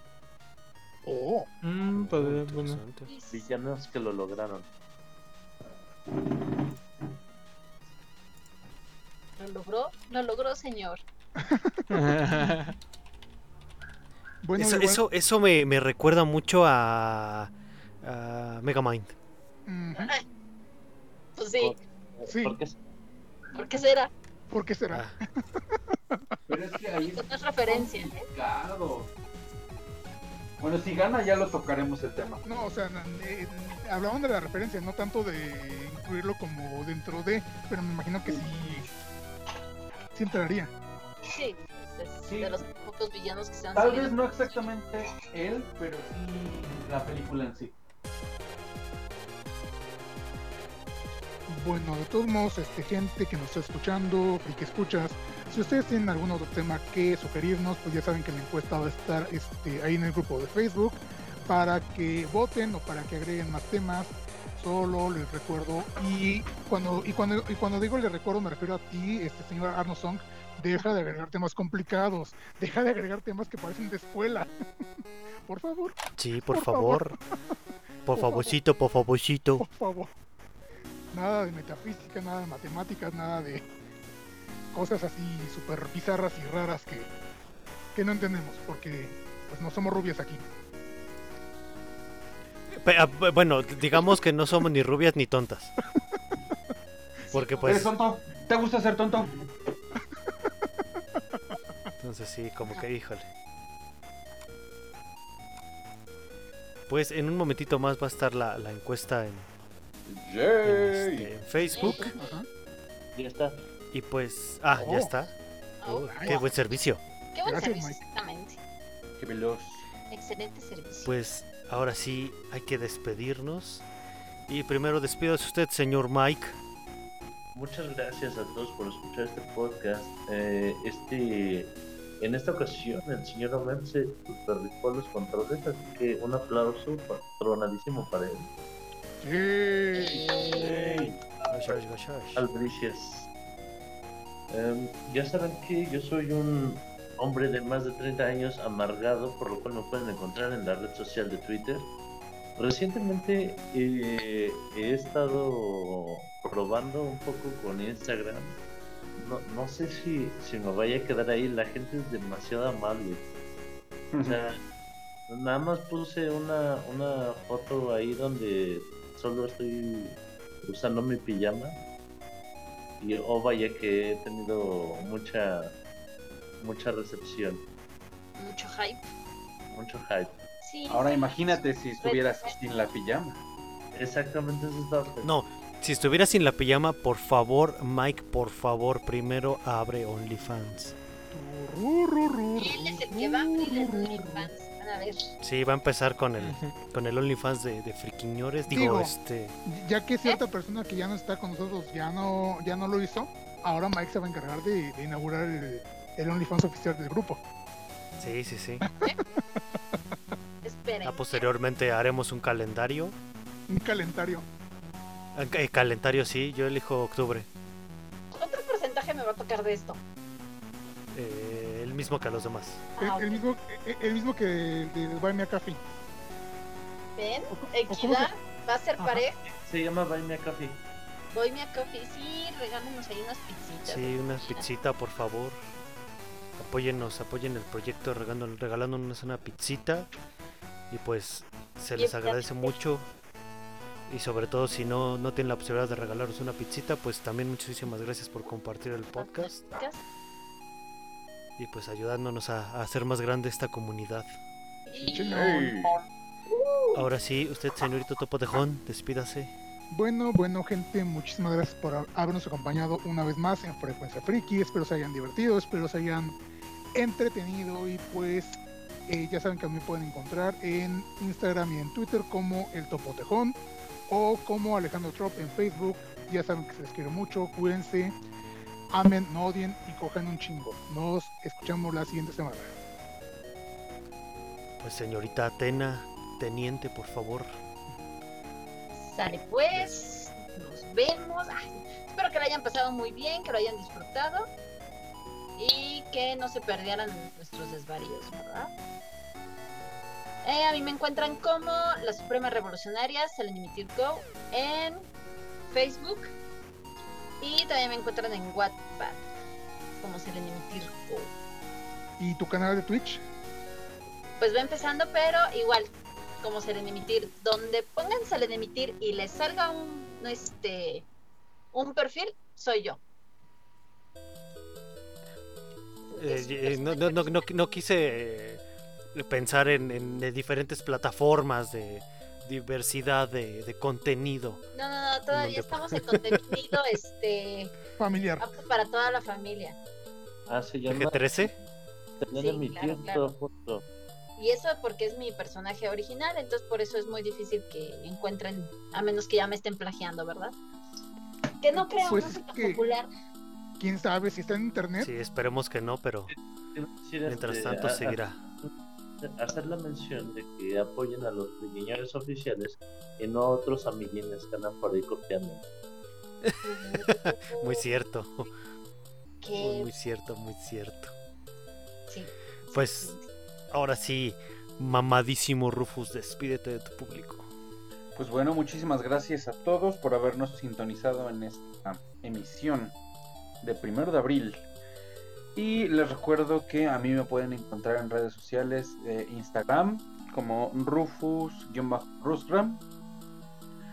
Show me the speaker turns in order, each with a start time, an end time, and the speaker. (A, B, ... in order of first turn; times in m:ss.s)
0:01.0-0:01.5 A
0:01.6-0:02.8 B
0:01.9-0:03.1 C
0:03.1-0:03.5 D
0:03.3-0:04.7 E
0:09.4-0:11.0 D
0:11.4-0:12.6 A
0:11.9-0:12.8 B
0:14.4-0:15.0 A
0:14.6-0:19.2 C
0:19.7-0:20.1 A
0:20.0-0:20.2 D
0:21.4-0:21.8 D
0:21.6-0:22.8 E
0:22.3-0:22.6 A
0:23.5-0:24.1 D
0:24.5-0:25.1 A
0:24.9-0:25.2 C
0:25.8-0:26.2 A
0:26.5-0:29.1 F
0:26.9-0:28.3 D
0:30.6-0:32.6 F
0:32.4-0:38.9 A
0:40.1-0:40.7 A
0:41.3-0:44.7 D
0:42.2-0:42.6 F
0:43.7-0:47.7 F
0:51.5-1:14.5 A
1:15.4-1:16.0 A
1:16.2-1:17.2 C
1:16.5-1:17.2 A
1:18.0-1:19.7 C
1:18.1-1:18.5 A
1:19.6-1:20.1 A
1:21.1-1:23.6 A
1:24.7-1:27.1 A
1:27.9-1:30.4 A
1:32.7-1:35.7 C
1:37.3-1:37.9 C
1:37.3-1:37.9 D
1:37.6-1:39.4 F
1:40.3-1:41.6 A
1:42.0-1:43.3 C
1:46.9-1:49.5 C
1:50.1-1:51.3 F
1:50.6-1:52.1 C
1:51.7-1:52.4 D
1:51.8-1:52.5 A
1:53.1-1:53.6 E
1:53.9-1:57.0 C
1:54.8-1:55.1 A
1:55.8-1:56.6 D
1:56.1-1:56.4 A
1:57.3-1:58.6 D
1:57.4-1:58.0 A
1:59.2-1:59.8 F
2:00.1-2:01.1 D
2:01.0-2:03.8 C
2:04.5-2:06.6 C
2:07.5-2:18.5 E
2:19.2-2:21.0 A
2:19.9-2:21.0 D
2:20.7-2:21.1 E
2:21.5-2:22.4 C
2:22.3-2:23.3 E
2:24.5-2:31.9 E
2:32.6-2:38.6 E
2:39.2-2:43.2 E
2:44.1-2:44.4 F
2:44.2-2:44.6 E
2:45.3-2:51.8 E
2:53.0-2:55.7 E
2:56.6-2:57.6 E
2:58.4-2:59.0 D
2:59.6-3:00.4 E
3:00.6-3:02.6 D
3:00.9-3:03.4 F
3:03.9-3:05.3 E
3:05.2-3:11.0 C
3:11.3-3:14.5 A
3:12.6-3:15.3 D
3:15.4-3:19.6 C
3:16.4-3:16.8 B
3:18.7-3:19.1 A
3:19.6-3:27.4 A
3:28.2-3:28.9 C
3:28.8-3:29.1 A
3:30.6-3:31.4 D
3:31.0-3:33.2 C
3:33.7-3:34.4 A
3:35.3-3:37.5 C
3:38.3-3:40.0 D
3:41.1-3:42.8 C
3:43.0-3:43.4 D
3:43.0-3:45.8 A
3:47.2-3:49.4 D
3:47.5-3:48.3 A
3:49.0-3:49.2 A
3:49.4-3:50.8 E
3:51.3-3:54.7 D
3:53.8-3:55.6 C
3:56.6-4:00.1 C
4:00.9-4:03.1 C
4:02.0-4:02.7 D
4:04.1-4:09.6 C
4:09.2-4:10.0 D
4:11.6-4:14.4 C
4:14.8-4:15.6 D
4:15.0-4:16.0 A
4:15.3-4:16.0 F
4:16.5-4:17.1 D
4:16.9-4:19.5 C
4:19.9-4:26.4 A
4:26.9-4:38.2 A
4:38.9-4:42.7 A
4:44.8-4:47.6 C
4:48.9-4:54.5 D
4:55.6-4:58.7 D
5:00.4-5:05.0 D
5:05.7-5:06.3 D
5:07.4-5:09.2 D
5:10.0-5:11.3 D
5:12.2-5:13.2 A
5:14.4-5:21.1 D
5:21.7-5:23.0 D
5:26.1-5:27.4 D
5:26.2-5:34.6 C
5:34.7-5:37.7 D
5:35.3-5:36.5 C
5:38.0-5:38.5 A
5:38.4-5:39.8 D
5:40.5-5:41.5 E
5:40.9-5:41.5 C
5:42.2-5:43.9 E
5:42.3-5:43.3 D
5:44.4-5:50.6 D
5:51.6-5:53.1 D
5:51.7-5:52.8 A
5:53.8-5:55.1 A
5:55.0-5:56.3 C
5:56.3-6:05.6 E
5:57.3-5:58.4 C
6:06.4-6:08.5 C
6:06.6-6:07.8 D
6:09.4-6:09.9 D
6:09.6-6:11.1 C
6:12.1-6:13.2 D
6:12.7-6:13.2 C
6:13.7-6:17.5 C
6:18.1-6:22.9 F
6:23.6-6:24.6 F
6:25.5-6:32.8 F